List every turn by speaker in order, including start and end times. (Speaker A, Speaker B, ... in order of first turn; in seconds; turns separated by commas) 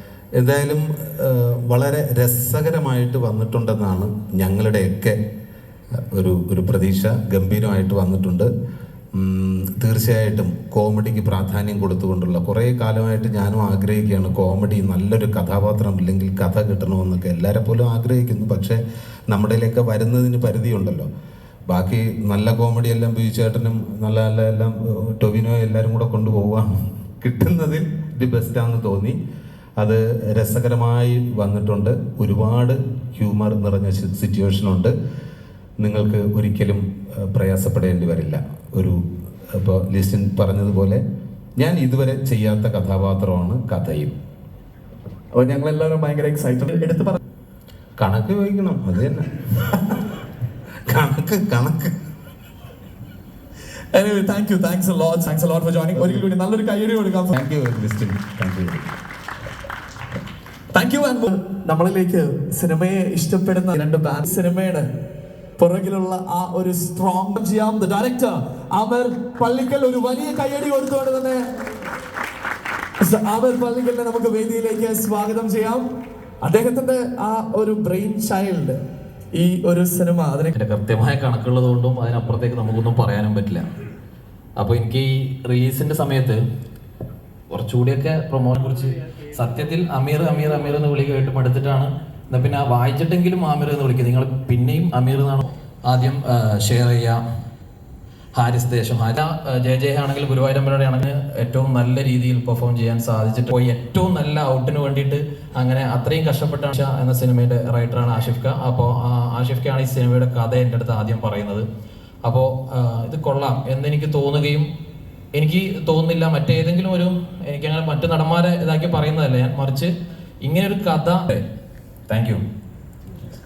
Speaker A: 0.3-5.2, Speaker A: 6.1-8.5, Speaker A: 9.1-21.1, Speaker A: 21.7-29.2, Speaker A: 29.8-34.9, Speaker A: 35.8-39.0, Speaker A: 39.5-41.0, Speaker A: 41.6-44.1, Speaker B: 45.3-47.2, Speaker A: 48.0-49.9, Speaker A: 50.9-51.9, Speaker B: 53.9-57.3, Speaker A: 57.3-58.9, Speaker B: 60.7-64.9, Speaker B: 65.6-71.4, Speaker B: 73.0-75.9, Speaker B: 76.4-78.8, Speaker B: 79.3-80.5, Speaker C: 80.5-83.7, Speaker C: 84.6-86.4, Speaker C: 87.5-97.2, Speaker C: 98.3-111.7, Speaker C: 112.2-114.7, Speaker C: 115.3-119.9, Speaker C: 120.4-121.4, Speaker C: 122.1-122.4